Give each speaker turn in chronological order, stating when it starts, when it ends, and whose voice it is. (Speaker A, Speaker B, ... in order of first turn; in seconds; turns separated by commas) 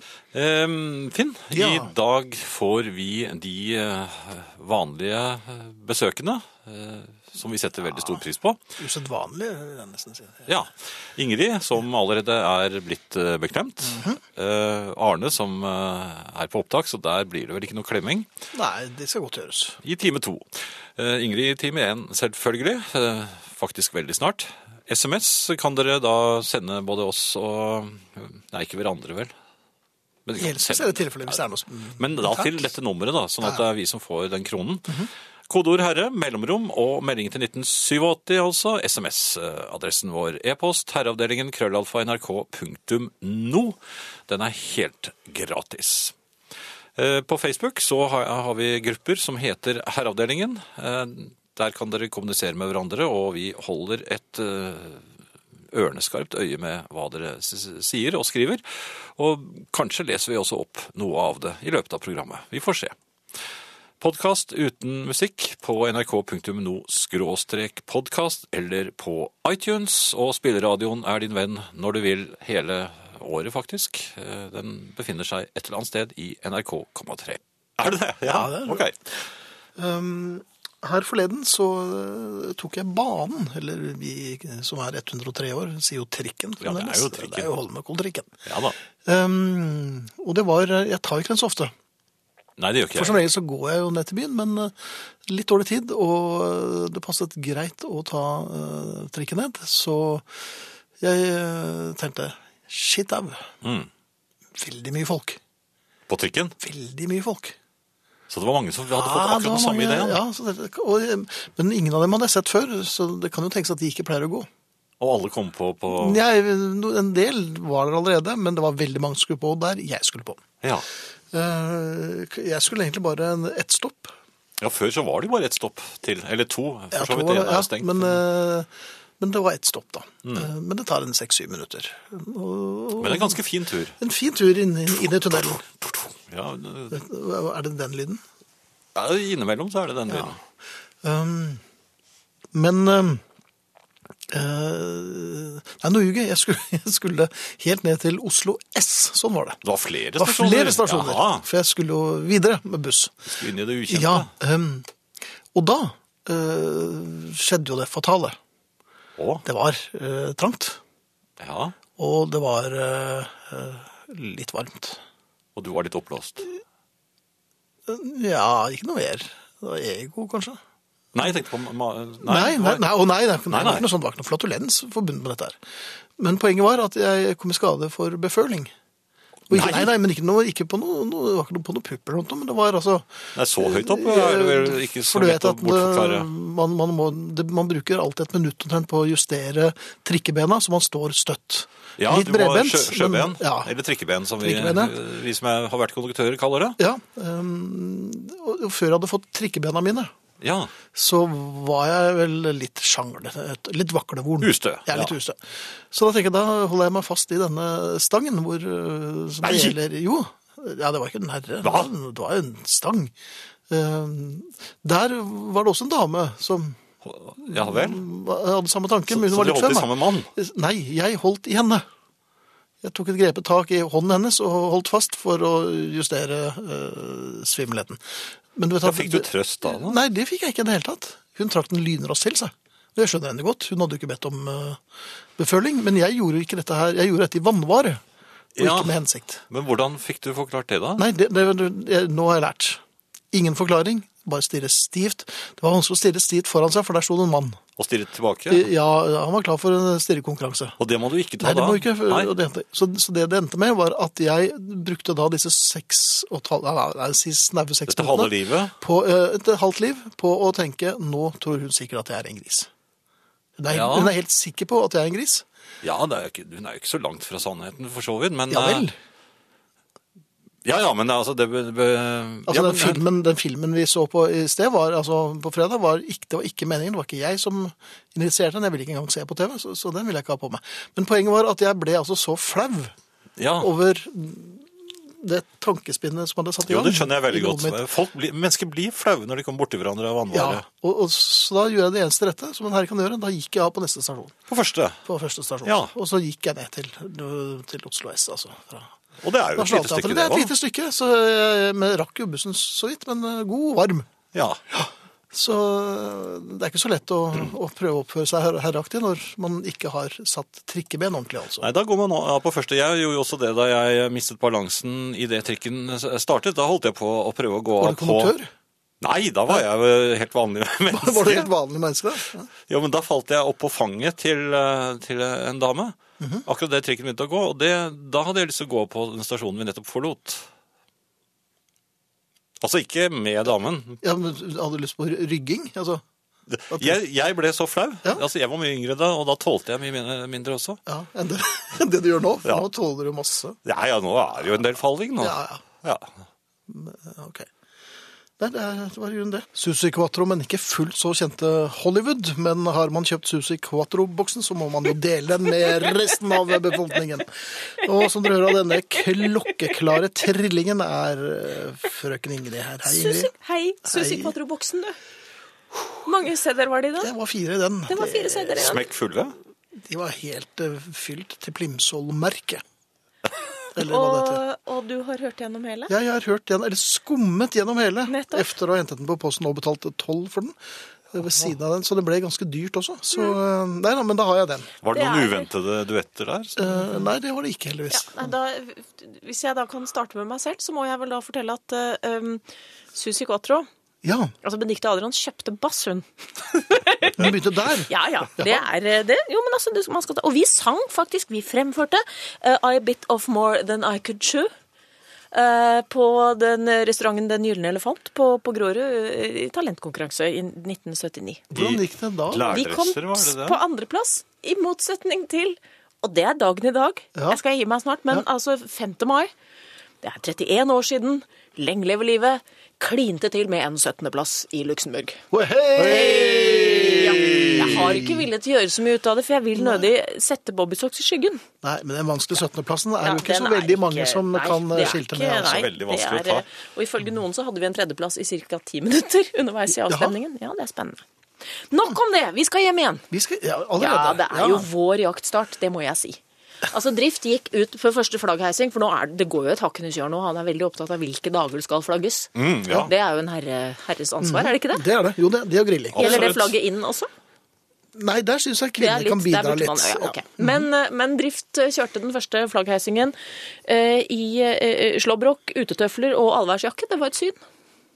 Speaker A: 0.3-8.6, Speaker B: 1.5-1.9, Speaker B: 8.8-10.5, Speaker A: 10.5-18.3, Speaker B: 13.8-14.2, Speaker B: 18.5-19.8, Speaker A: 19.8-29.3, Speaker A: 30.3-31.4, Speaker B: 30.4-32.6, Speaker A: 32.0-46.1, Speaker A: 47.0-55.0, Speaker A: 55.7-63.0, Speaker A: 64.0-79.0, Speaker B: 78.2-78.9, Speaker B: 79.8-88.3, Speaker A: 86.6-87.5, Speaker A: 88.5-88.8, Speaker B: 89.0-91.7, Speaker A: 92.6-93.2, Speaker B: 93.0-100.2, Speaker B: 101.0-103.5, Speaker A: 103.6-103.9, Speaker B: 104.6-105.4, Speaker A: 106.1-106.5, Speaker B: 106.6-107.6, Speaker A: 108.3-110.2, Speaker B: 108.9-114.5, Speaker A: 115.0-116.2, Speaker B: 115.9-120.4, Speaker B: 121.3-124.1, Speaker A: 124.6-128.2, Speaker B: 126.9-128.7, Speaker B: 129.2-133.4, Speaker A: 133.0-133.9, Speaker B: 134.0-135.6, Speaker A: 135.0-137.0, Speaker B: 136.9-138.2, Speaker A: 138.9-140.4, Speaker B: 141.0-141.6, Speaker B: 142.5-143.2, Speaker B: 144.3-149.6, Speaker A: 149.6-151.5, Speaker B: 150.2-153.2, Speaker A: 153.3-154.3, Speaker B: 153.9-154.9, Speaker B: 155.5-158.4, Speaker A: 159.2-159.4, Speaker B: 159.4-160.8, Speaker A: 161.4-161.8, Speaker B: 162.0-165.0, Speaker A: 165.6-166.5, Speaker B: 167.9-170.6, Speaker A: 171.1-172.9, Speaker B: 172.2-175.6, Speaker A: 173.5-173.9, Speaker B: 176.2-178.7, Speaker B: 179.5-193.7, Speaker A: 179.5-179.9, Speaker A: 183.3-186.3, Speaker A: 192.0-196.8, Speaker B: 194.4-194.9, Speaker B: 196.8-200.1, Speaker A: 200.4-200.7, Speaker B: 200.9-205.4, Speaker A: 204.4-205.1, Speaker B: 205.9-213.1, Speaker A: 209.4-209.8, Speaker A: 211.6-211.9, Speaker B: 213.7-216.8, Speaker A: 217.0-218.0, Speaker B: 217.4-221.8, Speaker A: 219.1-220.3, Speaker B: 222.8-228.0, Speaker B: 228.6-234.8, Speaker A: 228.8-230.0, Speaker B: 235.4-238.0, Speaker A: 238.6-241.1, Speaker B: 238.6-239.4, Speaker B: 241.0-242.8, Speaker B: 243.3-247.6, Speaker A: 247.8-248.7, Speaker B: 248.5-250.8, Speaker A: 250.8-252.3, Speaker B: 251.4-262.7, Speaker A: 257.9-258.7, Speaker B: 263.6-265.4, Speaker A: 263.7-264.1, Speaker A: 265.8-268.9, Speaker B: 268.5-268.9, Speaker A: 270.6-273.0, Speaker B: 272.5-282.9, Speaker A: 283.4-283.7, Speaker B: 283.6-287.8, Speaker A: 286.6-290.6, Speaker B: 290.3-294.4, Speaker A: 294.5-295.0, Speaker B: 295.1-298.9, Speaker A: 295.6-295.9, Speaker A: 299.2-300.5, Speaker B: 299.6-304.1, Speaker A: 304.3-304.6, Speaker B: 304.7-311.7, Speaker A: 311.6-318.4, Speaker B: 317.8-318.5, Speaker A: 319.0-321.5, Speaker B: 320.9-322.5, Speaker A: 322.7-330.5, Speaker A: 332.6-334.0, Speaker B: 334.0-336.0, Speaker A: 336.5-340.8, Speaker B: 336.7-337.0, Speaker B: 340.9-343.6, Speaker A: 343.6-346.1, Speaker B: 345.2-345.6, Speaker B: 346.7-347.5, Speaker B: 348.4-363.3, Speaker C: 362.9-365.0, Speaker B: 363.9-364.3, Speaker C: 366.0-367.1, Speaker B: 367.0-368.8, Speaker C: 367.9-368.8, Speaker A: 368.6-369.4, Speaker B: 369.8-372.6, Speaker B: 373.8-374.4, Speaker C: 373.8-375.9, Speaker B: 375.9-380.6, Speaker C: 378.1-378.5, Speaker B: 381.1-384.7, Speaker A: 384.8-387.0, Speaker C: 384.9-385.5, Speaker B: 386.6-388.3, Speaker C: 387.9-392.4, Speaker C: 392.9-393.7, Speaker B: 394.0-394.3, Speaker C: 394.4-397.4, Speaker B: 397.1-398.6, Speaker C: 397.9-404.5, Speaker C: 405.3-411.5, Speaker B: 411.5-412.5, Speaker A: 411.5-413.6, Speaker C: 412.4-419.3, Speaker C: 420.0-425.2, Speaker B: 425.3-428.3, Speaker C: 425.8-431.4, Speaker A: 427.0-427.9, Speaker B: 429.6-429.9, Speaker B: 431.6-435.6, Speaker C: 433.0-441.0, Speaker A: 435.4-436.4, Speaker B: 439.9-440.1, Speaker C: 441.7-443.1, Speaker B: 443.1-444.7, Speaker C: 443.8-454.8, Speaker A: 452.4-452.9, Speaker B: 454.2-456.3, Speaker A: 455.9-456.5, Speaker C: 456.0-457.1, Speaker B: 457.9-460.7, Speaker C: 458.8-467.4